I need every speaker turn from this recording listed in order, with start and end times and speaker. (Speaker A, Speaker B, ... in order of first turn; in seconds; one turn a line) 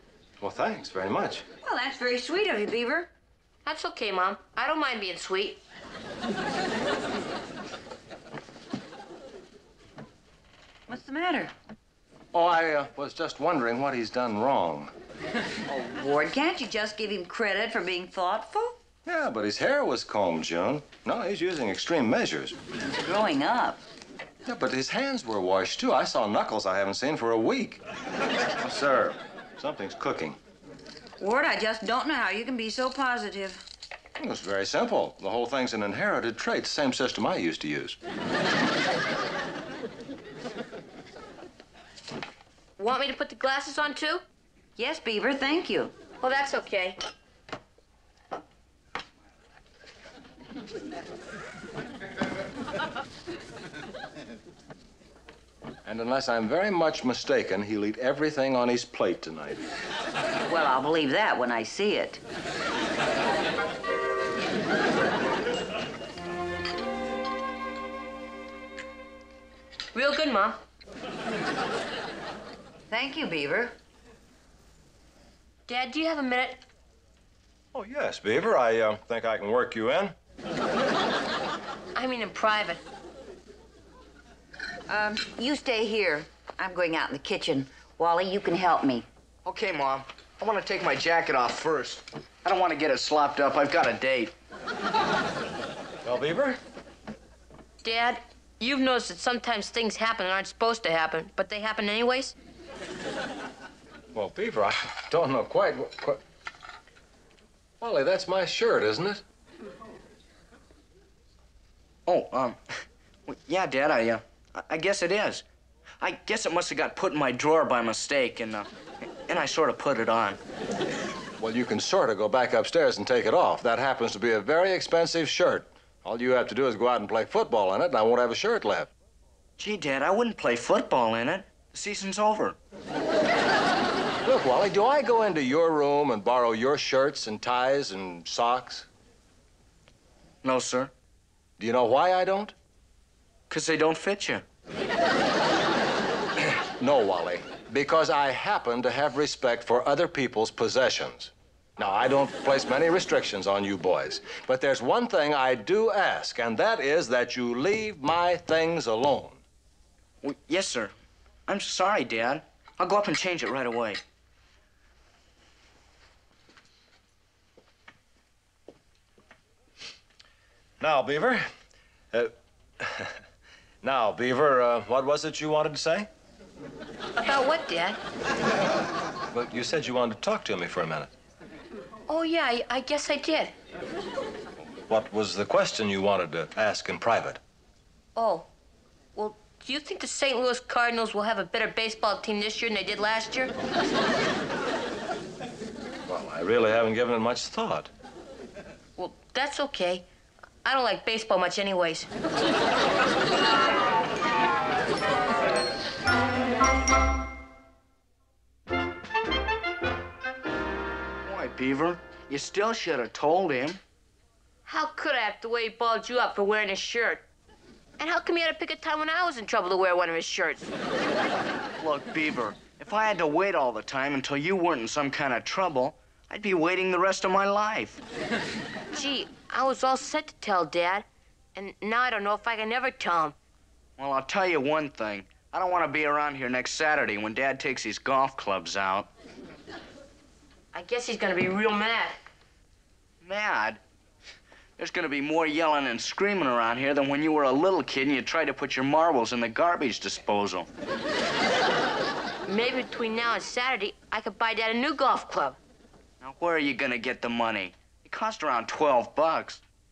Speaker A: 0.4-1.4
Speaker B: 1.6-3.1
Speaker C: 3.6-5.6
Speaker B: 10.9-11.5
Speaker A: 12.3-14.9
Speaker B: 15.7-18.8
Speaker A: 19.1-22.6
Speaker B: 22.9-23.8
Speaker A: 24.4-27.8
Speaker A: 28.6-30.4
Speaker B: 31.2-33.6
Speaker A: 34.2-38.0
Speaker C: 42.8-44.2
Speaker B: 44.8-45.9
Speaker C: 46.2-47.0
Speaker A: 55.8-59.6
Speaker B: 60.5-62.2
Speaker C: 69.9-70.6
Speaker B: 72.9-73.7
Speaker C: 75.7-76.6
Speaker A: 77.7-80.1
Speaker C: 81.9-82.8
Speaker B: 84.9-89.0
Speaker D: 89.4-94.3
Speaker A: 96.0-96.6
Speaker C: 97.8-102.3
Speaker A: 104.1-106.2
Speaker A: 107.8-109.2
Speaker D: 112.1-115.4
Speaker D: 116.0-118.7
Speaker D: 119.3-120.4
Speaker A: 121.4-128.9
Speaker D: 129.6-132.6
Speaker A: 134.2-138.9
Speaker D: 140.4-140.9
Speaker A: 141.6-142.5
Speaker D: 143.5-144.4
Speaker A: 146.4-159.4
Speaker D: 160.2-160.9
Speaker D: 161.5-164.0
Speaker A: 170.8-171.5
Speaker A: 172.1-173.2
Speaker A: 173.8-176.1
Speaker C: 177.2-178.0
Speaker A: 179.3-181.1
Speaker C: 182.1-183.5
Speaker A: 184.9-187.4
Speaker C: 188.2-188.5
Speaker C: 189.2-193.5
Speaker A: 196.1-197.9
Speaker C: 199.0-200.1
Speaker C: 200.6-202.1
Speaker D: 211.2-213.8
Speaker C: 214.7-217.2
Speaker C: 218.0-220.7
Speaker D: 221.8-228.0
Speaker C: 228.9-233.3
Speaker D: 234.0-239.1
Speaker C: 240.7-242.2
Speaker D: 243.2-243.8
Speaker D: 244.8-250.7
Speaker C: 252.5-255.6
Speaker D: 256.2-259.6